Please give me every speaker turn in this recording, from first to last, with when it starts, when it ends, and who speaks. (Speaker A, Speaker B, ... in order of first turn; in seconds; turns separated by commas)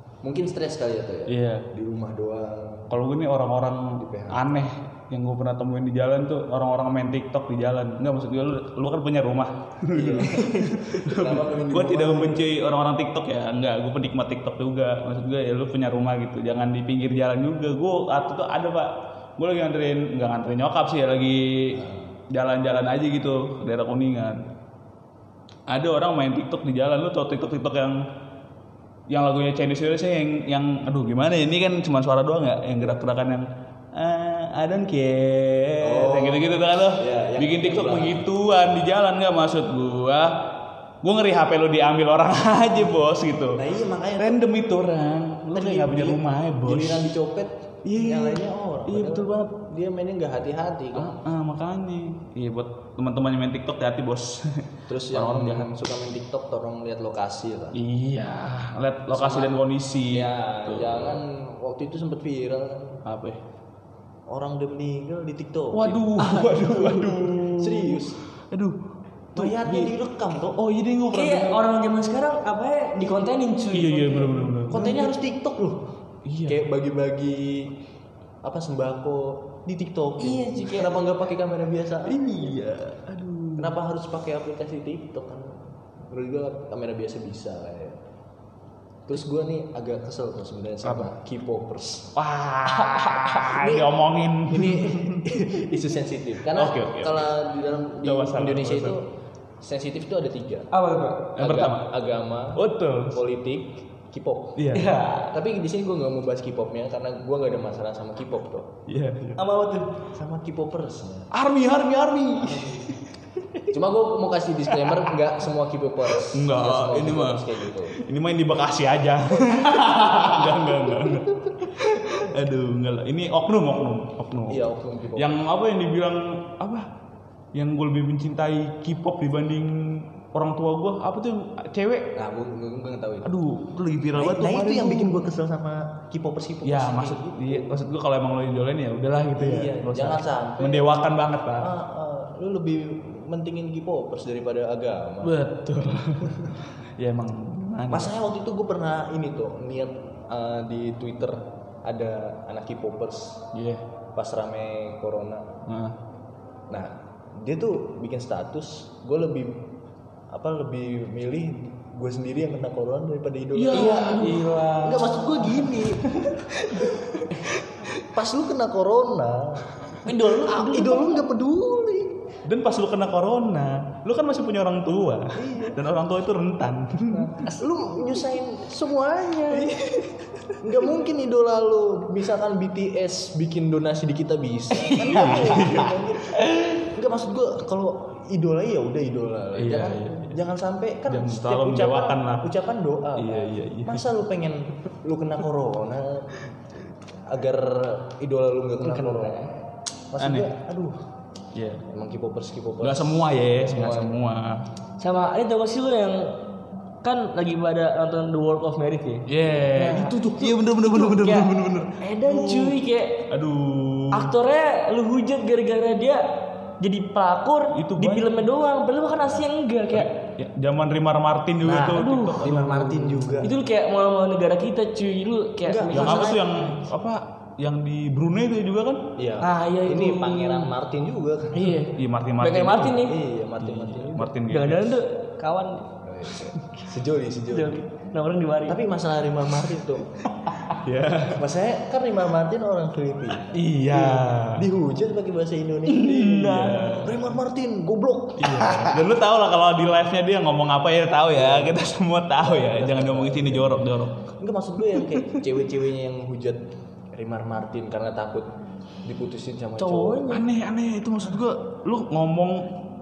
Speaker A: 0.2-2.9, Speaker B: 1.3-1.7, Speaker B: 2.9-24.4, Speaker A: 4.0-4.6, Speaker A: 9.9-12.5, Speaker A: 21.8-22.1, Speaker B: 25.7-28.0, Speaker B: 29.1-40.3, Speaker A: 35.8-38.2, Speaker B: 41.0-43.7, Speaker A: 43.5-44.4, Speaker B: 44.2-47.1, Speaker A: 45.5-51.2, Speaker B: 47.8-49.6, Speaker B: 51.0-55.7, Speaker A: 54.9-57.8, Speaker B: 57.7-61.2, Speaker A: 59.1-59.6, Speaker A: 60.1-63.0, Speaker B: 63.0-63.4, Speaker A: 64.3-68.2, Speaker B: 65.7-68.8, Speaker A: 69.3-70.6, Speaker B: 69.3-71.6, Speaker C: 71.1-74.7, Speaker B: 73.7-75.0, Speaker A: 74.7-75.8, Speaker B: 76.2-76.6, Speaker A: 76.5-77.8, Speaker A: 78.4-82.6, Speaker C: 80.2-81.0, Speaker B: 82.1-83.7, Speaker A: 83.6-88.0, Speaker A: 89.1-92.2, Speaker B: 92.2-95.3, Speaker C: 92.7-93.7, Speaker A: 93.6-93.9, Speaker A: 94.5-99.0, Speaker B: 96.5-97.3, Speaker B: 98.0-99.0, Speaker A: 99.6-100.7, Speaker C: 100.7-101.3, Speaker B: 101.3-101.9, Speaker A: 101.4-104.6, Speaker B: 102.5-103.2, Speaker B: 104.6-105.0, Speaker C: 104.7-105.3, Speaker A: 105.2-108.7, Speaker B: 108.9-109.4, Speaker C: 109.4-109.9, Speaker A: 110.1-111.3, Speaker B: 111.3-113.1, Speaker A: 112.4-112.9, Speaker A: 113.7-118.0, Speaker B: 114.7-115.0, Speaker B: 116.1-117.5, Speaker B: 118.0-124.6, Speaker A: 124.5-125.4, Speaker B: 125.2-126.9, Speaker B: 127.5-132.1, Speaker A: 132.2-133.3, Speaker B: 133.2-135.3, Speaker A: 134.2-137.8, Speaker B: 136.6-141.7, Speaker A: 139.4-141.0, Speaker A: 141.6-145.4, Speaker B: 145.2-148.1, Speaker A: 147.9-153.4, Speaker B: 153.5-153.8, Speaker A: 154.2-155.5, Speaker B: 155.7-156.0, Speaker A: 156.7-159.7, Speaker A: 160.3-167.2, Speaker B: 163.6-165.8, Speaker C: 163.7-164.5, Speaker B: 166.7-167.4, Speaker A: 168.1-172.1, Speaker C: 170.1-171.2, Speaker B: 172.5-177.3, Speaker A: 175.3-175.8, Speaker C: 177.2-177.6, Speaker A: 177.6-179.8, Speaker B: 179.7-180.2, Speaker A: 180.6-199.4, Speaker B: 184.8-186.8, Speaker B: 189.6-190.4, Speaker B: 191.1-192.5, Speaker B: 193.2-194.0, Speaker C: 198.8-199.5, Speaker A: 200.1-201.0, Speaker B: 200.2-200.5, Speaker B: 201.5-201.8, Speaker A: 201.9-204.2, Speaker B: 202.8-204.7, Speaker C: 205.0-206.4, Speaker C: 207.0-213.3, Speaker B: 209.3-212.8, Speaker B: 213.3-214.3, Speaker C: 214.1-216.2, Speaker C: 216.8-220.1, Speaker B: 217.7-218.3, Speaker B: 219.9-223.5, Speaker A: 221.6-223.6, Speaker C: 221.9-222.5, Speaker C: 223.4-226.4, Speaker A: 225.6-226.5, Speaker B: 225.9-229.0, Speaker A: 229.2-231.8, Speaker C: 229.4-230.7, Speaker C: 231.5-233.2, Speaker B: 231.9-233.1, Speaker A: 233.0-234.3, Speaker B: 233.6-235.0, Speaker C: 234.5-235.9, Speaker A: 236.0-237.8, Speaker C: 237.5-238.8, Speaker A: 238.7-240.2, Speaker B: 240.5-241.4, Speaker A: 241.3-249.1, Speaker B: 243.5-244.7, Speaker B: 245.9-247.2, Speaker C: 246.0-247.1, Speaker B: 248.4-254.3, Speaker A: 251.3-251.8, Speaker A: 252.4-253.9, Speaker A: 254.4-258.5, Speaker B: 254.9-255.2, Speaker A: 259.1-260.3, Speaker C: 259.8-260.4, Speaker B: 260.3-262.7